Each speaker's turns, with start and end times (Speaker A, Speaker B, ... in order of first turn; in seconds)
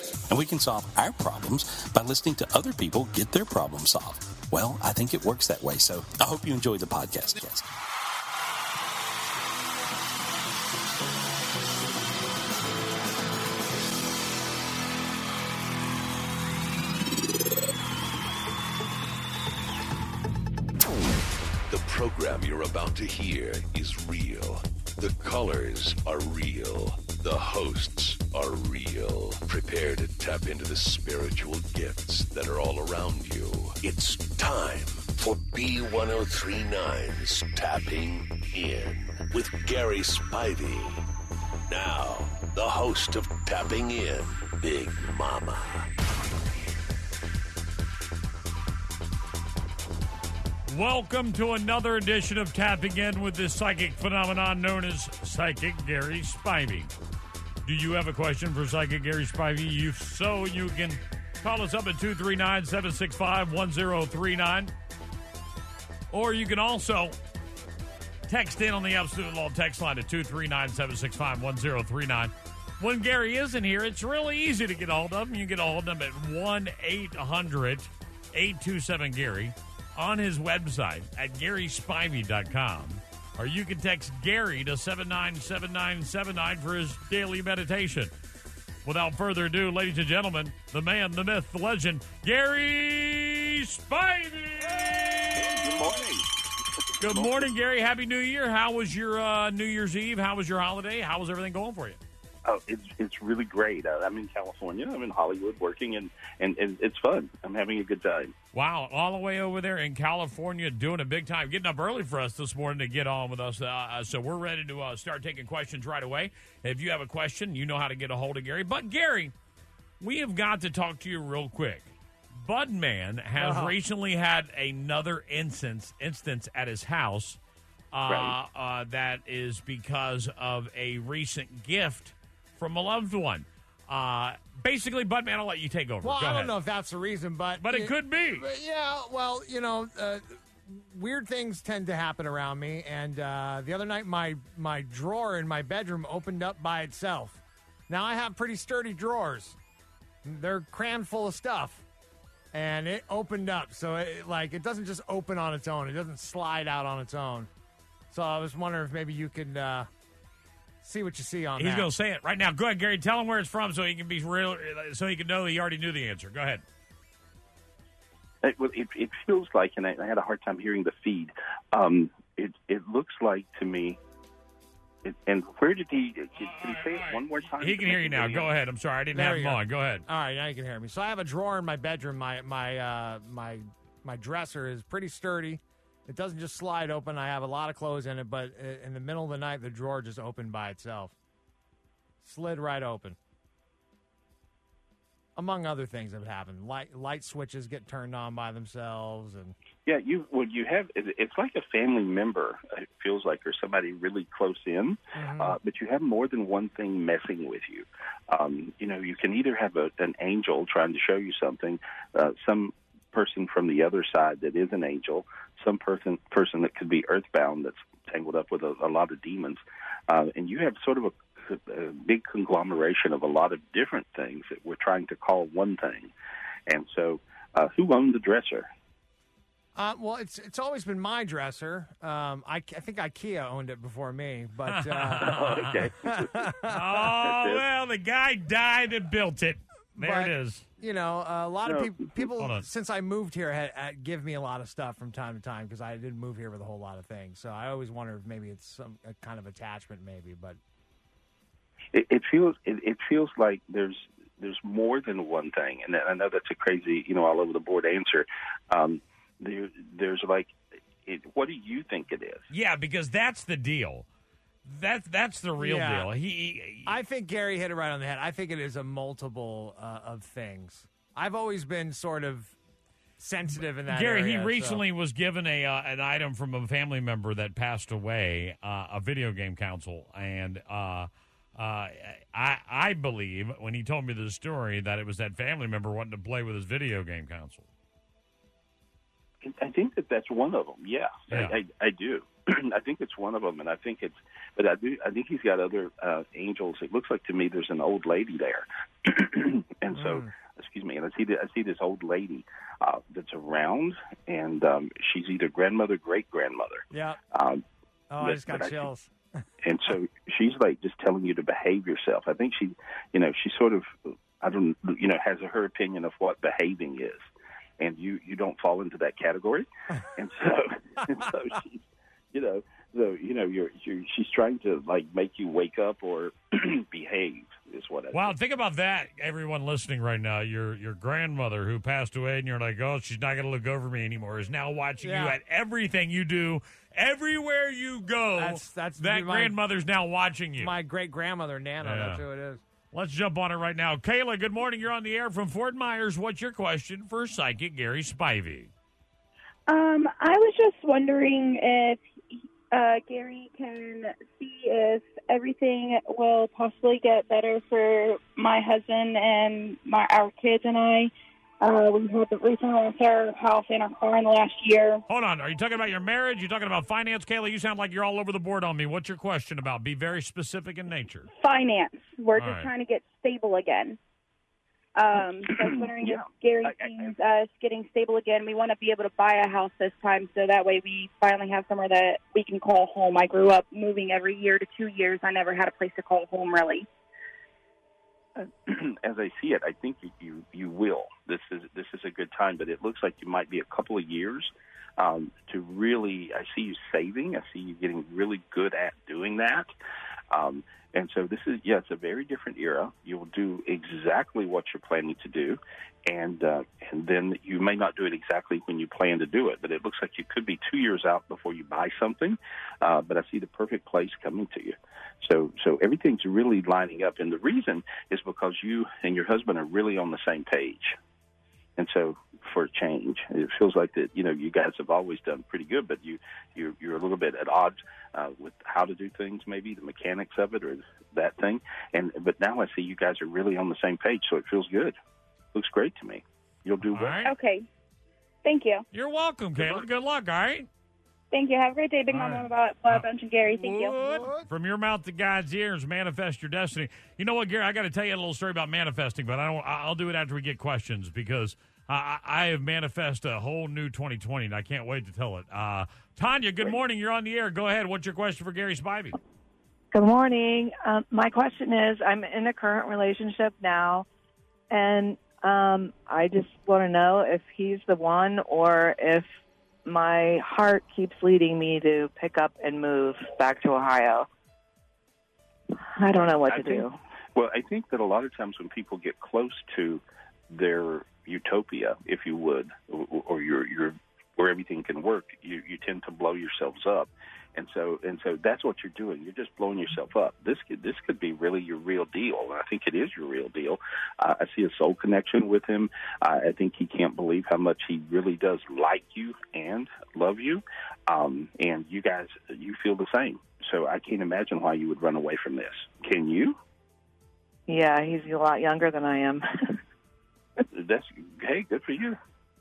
Speaker A: 0.3-7.7
Speaker B: 21.7-41.1, 41.7-45.9
Speaker C: 50.7-56.9, 57.6-64.7, 66.1-67.2, 68.3-88.1, 88.8-96.0, 97.0-102.0, 108.5-119.3, 120.0-127.4, 127.9-136.5, 137.6-138.5, 161.6-166.6, 176.4-180.0, 234.7-235.9, 236.7-240.7, 242.4-242.7, 262.5-264.1, 264.6-267.0, 273.9-287.7, 328.1-340.8, 341.8-342.2, 342.9-348.7, 365.1-371.3, 372.4-372.7, 436.9-437.3, 438.9-440.7, 442.1-459.2
Speaker D: 95.3-96.3, 97.0-97.5, 102.5-108.3, 128.1-128.3, 168.4-174.0, 175.0-178.5, 199.9-226.1, 226.7-228.7, 235.2-236.4, 237.2-237.6, 241.7-241.9, 251.9-262.5, 289.4-307.6, 308.2-308.9, 309.6-328.3, 375.5-377.1, 388.4-399.7, 400.3-421.0, 421.8-435.0, 435.5-437.2, 439.6-439.9, 476.4-506.6, 510.7-512.2
Speaker E: 123.3-123.8, 136.0-149.6, 150.2-151.8, 152.5-157.5, 158.1-159.9, 160.8-161.9, 179.1-191.2, 192.2-193.2, 195.4-199.6, 205.2-205.6, 229.8-237.0, 240.0-250.6, 265.6-266.1, 266.9-272.6, 273.2-274.8, 299.9-300.3, 306.9-307.2, 308.1-309.1, 335.0-335.4, 338.4-339.6, 340.6-342.6, 444.0-444.5
Speaker F: 349.7-365.0, 371.3-374.0, 375.0-386.9, 437.2-437.7, 438.4-438.9, 441.3-444.0
Speaker G: 459.9-464.1, 464.7-469.3, 469.9-474.3, 475.9-477.0, 507.7-509.8